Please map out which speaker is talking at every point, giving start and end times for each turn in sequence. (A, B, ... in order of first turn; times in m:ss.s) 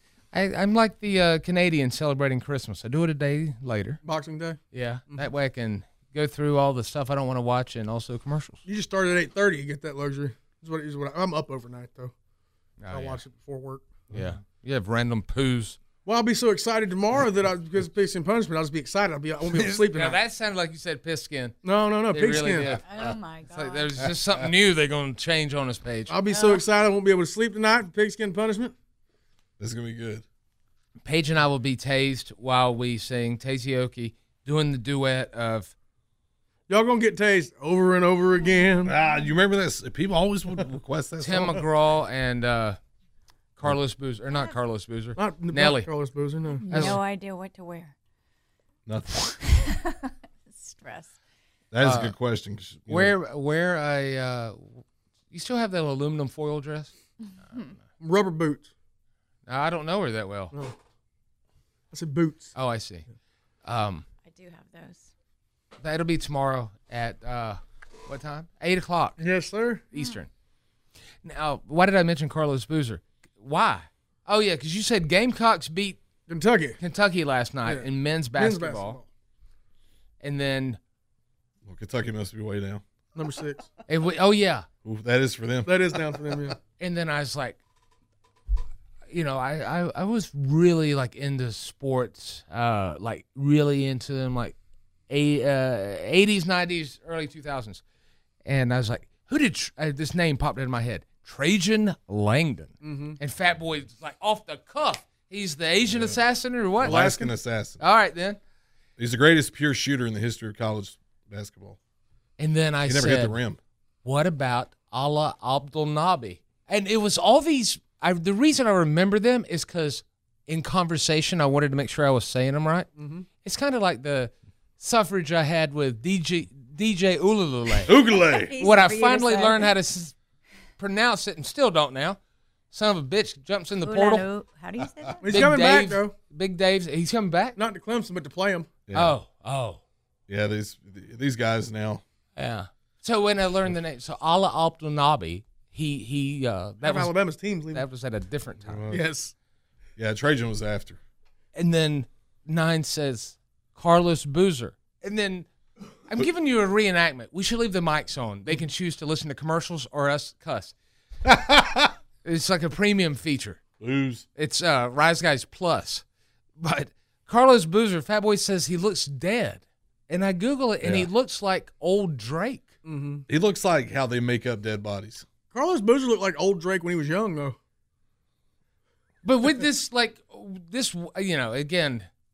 0:00.3-0:04.0 A
0:04.0-0:05.3 B
0:04.7-0:08.6 A
0:08.6-0:12.1 B
0:12.8-0:13.2 A
0:12.9-0:14.0 B
0:14.1-0:15.8 A
0:16.0-0:20.2 B
0:19.5-0:21.6 A
0:21.6-0:22.8 B
0:22.1-0:22.8 A
0:22.8-0:24.1 C
0:23.5-0:26.2 A
0:26.1-0:28.7 B
0:26.3-0:26.6 C
0:29.6-0:30.2 D
0:31.0-0:35.7 A
0:36.7-0:39.0 B
0:38.8-0:41.6 D
0:41.2-0:42.8 A
0:43.6-0:45.9 A
0:45.2-0:47.0 B
0:46.6-0:47.9 C
0:46.7-0:47.0 A
0:48.8-0:49.4 D
0:49.5-0:51.1 C
0:51.7-0:53.1 D
0:51.8-0:52.2 A
0:52.9-0:56.9 A
0:58.0-0:58.7 B
0:59.5-1:00.5 A
1:01.9-1:02.5 B
1:02.5-1:03.0 A
1:03.6-1:04.0 A
1:04.2-1:05.1 C
1:05.8-1:09.2 A
1:09.2-1:09.8 B
1:09.9-1:10.3 A
1:11.2-1:16.0 A
1:16.3-1:16.8 B
1:16.8-1:19.0 A
1:17.6-1:19.0 B
1:20.2-1:20.8 A
1:21.6-1:22.8 D
1:23.1-1:23.7 B
1:23.9-1:24.7 A
1:24.8-1:26.5 D
1:25.6-1:26.6 B
1:26.8-1:27.6 A
1:29.1-1:34.5 A
1:35.1-1:37.8 A
1:38.4-1:47.2 A
1:42.8-1:43.2 B
1:45.9-1:46.2 D
1:46.8-1:47.8 D
1:46.9-1:47.3 B
1:47.8-1:48.4 A
1:49.0-1:51.8 D
1:52.4-1:53.4 A
1:52.8-1:53.6 D
1:54.0-2:02.9 A
2:03.0-2:03.2 B
2:03.4-2:07.9 A
2:07.8-2:08.5 D
2:08.0-2:09.8 C
2:08.6-2:10.1 A
2:10.8-2:12.2 A
2:12.7-2:14.3 A
2:13.8-2:15.4 C
2:15.2-2:16.1 B
2:15.3-2:17.6 A
2:17.6-2:18.7 B
2:18.9-2:19.1 D
2:18.9-2:19.8 A
2:20.3-2:22.0 D
2:22.4-2:27.1 A
2:26.8-2:27.8 B
2:27.7-2:28.8 A
2:28.6-2:29.1 D
2:28.9-2:29.3 B
2:30.0-2:31.0 D
2:31.5-2:35.5 A
2:36.1-2:40.7 A
2:41.2-2:41.9 D
2:42.2-2:43.6 A
2:43.8-2:44.2 D
2:44.3-2:46.0 A
2:46.6-2:52.7 A
2:50.8-2:51.1 D
2:52.8-2:53.2 B
2:53.3-2:55.2 D
2:55.5-2:57.6 B
2:59.2-3:02.1 A